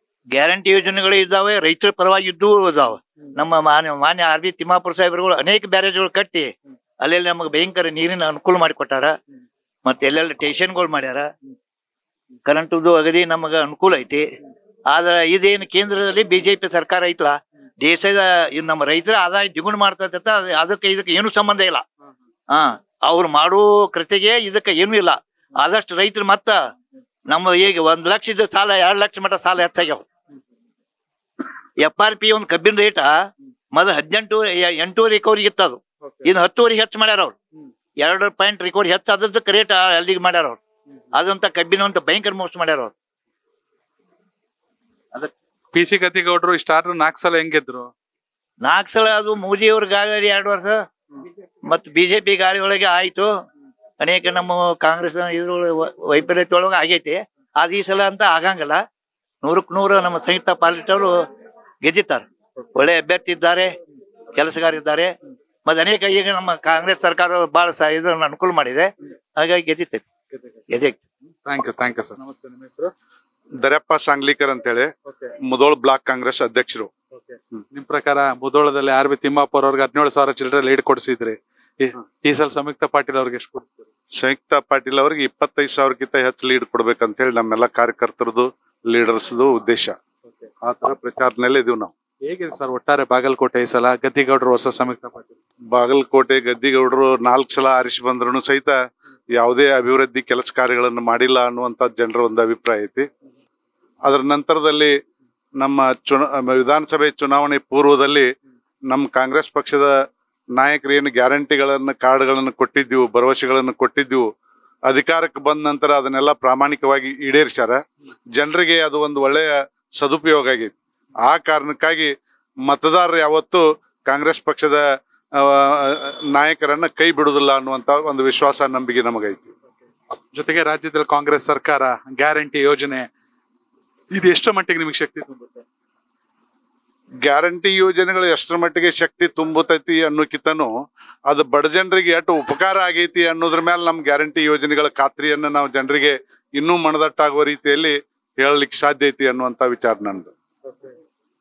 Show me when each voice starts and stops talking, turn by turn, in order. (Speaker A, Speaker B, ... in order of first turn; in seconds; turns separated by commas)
Speaker A: 0.3-6.5, Speaker A: 7.0-9.1, Speaker A: 9.8-11.3, Speaker A: 12.4-14.3, Speaker A: 14.9-21.8, Speaker A: 22.5-26.6, Speaker A: 27.3-30.0, Speaker A: 31.8-33.1, Speaker A: 33.7-37.3, Speaker A: 38.0-40.6, Speaker A: 41.1-42.9, Speaker B: 45.7-47.9, Speaker A: 48.6-50.8, Speaker A: 51.7-53.3, Speaker A: 54.0-58.8, Speaker A: 59.4-61.1, Speaker A: 61.8-63.7, Speaker A: 64.3-65.1, Speaker A: 65.6-70.0, Speaker A: 70.7-71.0, Speaker B: 71.4-72.9, Speaker C: 73.6-74.9, Speaker C: 75.4-76.9, Speaker B: 77.1-83.8, Speaker C: 84.2-89.9, Speaker C: 90.6-91.9, Speaker B: 92.2-95.4, Speaker C: 95.7-98.7, Speaker C: 99.3-103.0, Speaker C: 104.0-104.9, Speaker C: 105.6-108.3, Speaker C: 108.9-109.9, Speaker C: 110.5-114.3, Speaker C: 114.9-117.8, Speaker C: 118.3-122.1, Speaker C: 122.7-124.8, Speaker C: 125.4-129.5, Speaker B: 130.3-133.1, Speaker B: 134.1-135.6, Speaker C: 137.2-140.7, Speaker C: 141.3-150.3